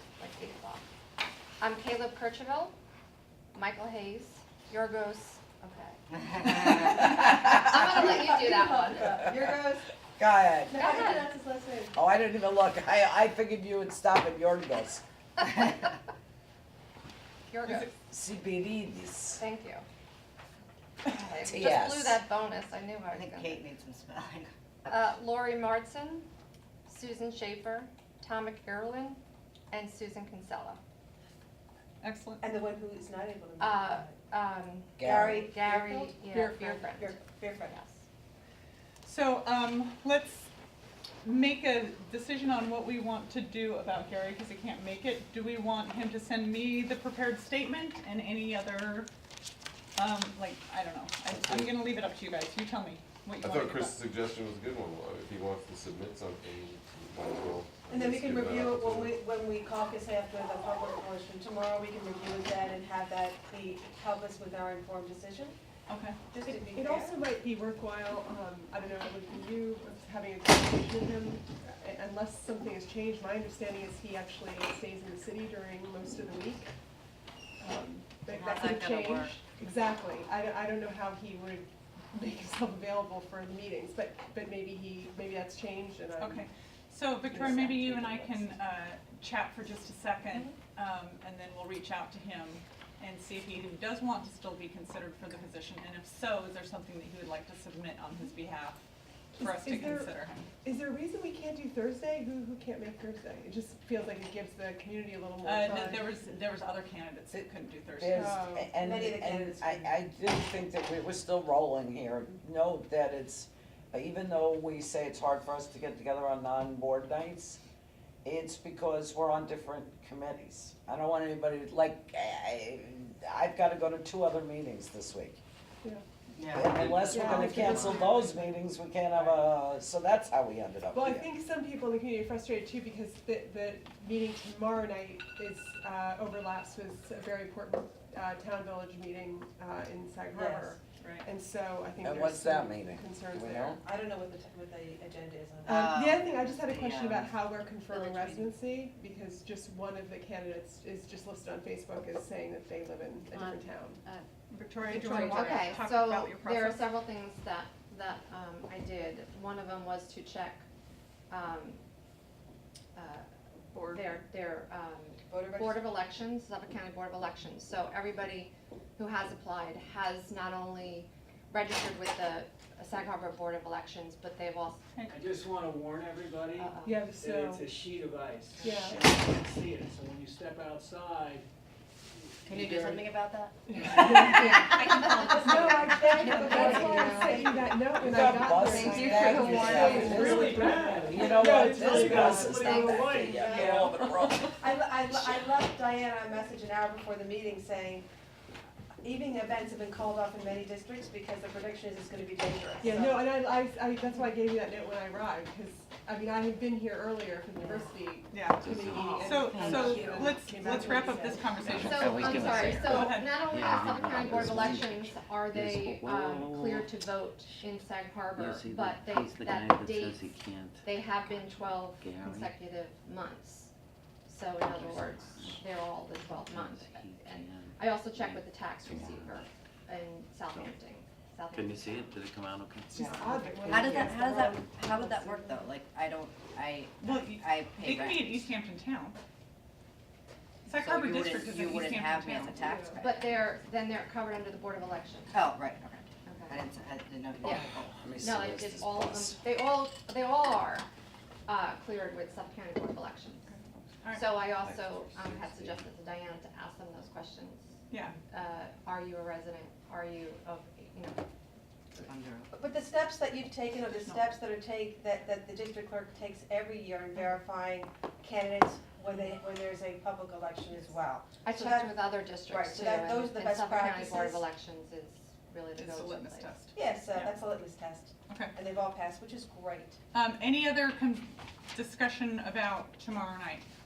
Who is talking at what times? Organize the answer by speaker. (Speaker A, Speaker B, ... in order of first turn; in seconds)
Speaker A: 0.2-0.8, 1.6-2.7, 3.5-9.1, 10.8-11.3, 17.5-17.9, 19.4-19.9, 21.1-23.7, 24.9-26.3, 26.9-29.2, 29.7-30.8, 33.6-38.0, 155.0-160.7, 161.3-161.8, 162.9-163.3, 163.9-174.8, 176.6-177.1, 186.2-187.5, 188.1-190.8, 191.8-193.2, 211.8-223.7, 224.3-232.2, 243.0-245.4, 246.2-246.6, 248.2-250.9, 251.5-253.5, 254.1-257.7, 258.3-261.2, 271.4-276.5
Speaker B: 7.0-8.0, 10.2-11.2, 11.9-15.0, 18.1-19.4, 21.3-22.2, 35.0-35.4, 108.0-117.6, 118.2-125.4, 126.5-131.2, 142.0-143.8, 188.0-194.6, 213.8-214.9, 215.6-216.8, 248.0-249.4
Speaker C: 7.9-9.9, 10.7-12.0, 32.4-34.2, 35.0-37.8, 57.9-65.5, 66.3-67.2, 108.8-109.9, 140.3-140.8, 143.8-145.8, 165.3-166.0, 186.3-187.9, 193.2-198.1, 199.0-203.3, 233.5-233.8, 262.5-271.9, 272.5-274.4, 276.7-280.0
Speaker D: 23.1-24.5, 78.2-79.4, 126.4-127.1, 145.7-148.6, 153.3-154.2, 182.5-187.1, 209.1-210.0, 233.6-238.5, 240.7-243.2, 245.3-248.0, 261.9-262.5
Speaker E: 32.0-32.4, 39.0-40.5, 41.2-49.1, 50.0-54.0, 65.9-66.2, 86.2-98.8, 99.4-100.5, 105.4-108.3, 141.0-141.3, 154.5-156.9, 163.7-164.1, 174.9-175.2, 208.3-213.5, 237.0-239.2, 240.7-242.7, 253.5-254.3, 257.9-258.2, 275.8-277.4, 278.3-278.5, 280.1-283.6
Speaker F: 51.3-51.8, 53.4-59.2
Speaker G: 66.7-76.7, 77.6-86.5, 87.3-88.5, 99.3-106.1, 108.1-108.7, 127.1-128.5, 130.9-143.8, 145.7-154.0, 176.8-177.7, 178.6-179.1, 183.7-192.7, 202.8-212.0, 232.9-235.7
Speaker H: 175.1-181.5, 182.2-183.0, 189.4-193.9
Speaker I: 208.6-209.4, 211.7-216.9, 218.4-222.5, 224.9-225.7, 226.4-229.4, 230.5-230.8, 231.5-233.0, 254.7-255.7